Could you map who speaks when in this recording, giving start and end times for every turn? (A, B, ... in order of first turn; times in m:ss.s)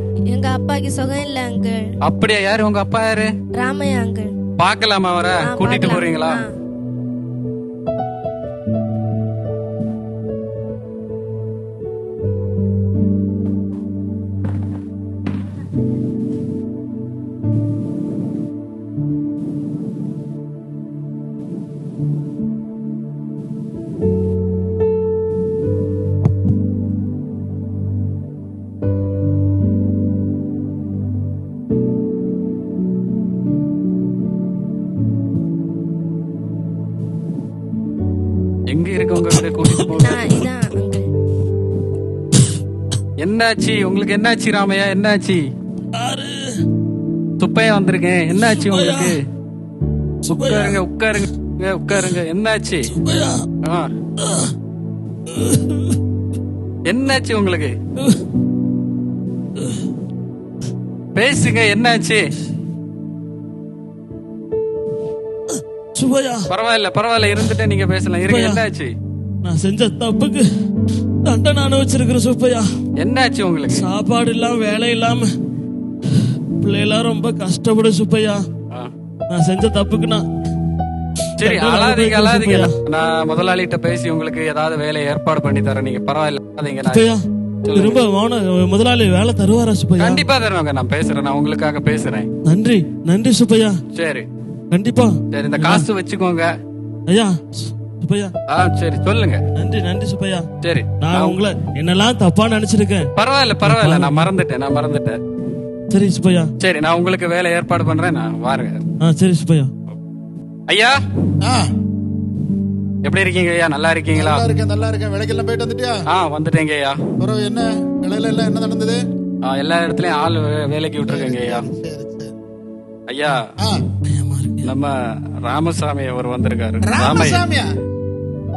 0:00.3-0:01.9 A
0:02.0-0:03.3 B
0:03.6-0:04.3 A
0:04.6-0:06.4 B
0:05.4-0:06.5 A
0:38.7-0:40.3 B
0:40.1-0:41.0 A
0:43.2-0:45.5 B
0:45.9-0:46.6 C
0:47.4-0:49.2 B
0:48.3-0:49.2 C
0:50.3-0:50.8 C
0:50.4-0:52.9 B
0:52.9-0:53.4 C
0:53.6-0:53.9 B
0:54.2-0:54.5 C
0:55.3-0:55.9 C
0:56.9-0:57.8 B
1:01.1-1:02.2 B
1:05.5-1:06.5 C
1:06.5-1:08.9 B
1:08.3-1:08.6 C
1:09.4-1:10.4 C
1:11.2-1:12.7 C
1:13.0-1:13.9 B
1:13.7-1:15.3 C
1:16.6-1:18.4 C
1:19.3-1:20.2 C
1:21.4-1:22.7 C
1:21.4-1:27.1 B
1:26.9-1:27.2 C
1:27.6-1:28.0 B
1:27.7-1:30.2 C
1:30.0-1:32.3 B
1:32.4-1:33.8 C
1:33.9-1:34.2 B
1:34.7-1:35.8 C
1:35.3-1:36.5 B
1:37.1-1:38.3 C
1:38.5-1:39.4 B
1:39.6-1:40.4 C
1:40.6-1:41.4 B
1:41.0-1:43.1 C
1:43.2-1:45.2 B
1:43.6-1:44.3 C
1:45.9-1:46.5 C
1:46.6-1:48.8 B
1:49.0-1:49.7 C
1:50.7-1:51.0 B
1:51.4-1:51.7 D
1:53.0-1:54.4 B
1:54.1-1:56.0 D
1:56.1-1:57.0 B
1:57.2-1:59.0 D
1:59.4-2:01.6 B
2:01.0-2:02.3 D
2:03.1-2:03.4 B
2:03.6-2:03.8 D
2:04.1-2:04.7 C
2:04.6-2:07.4 B
2:06.9-2:07.7 D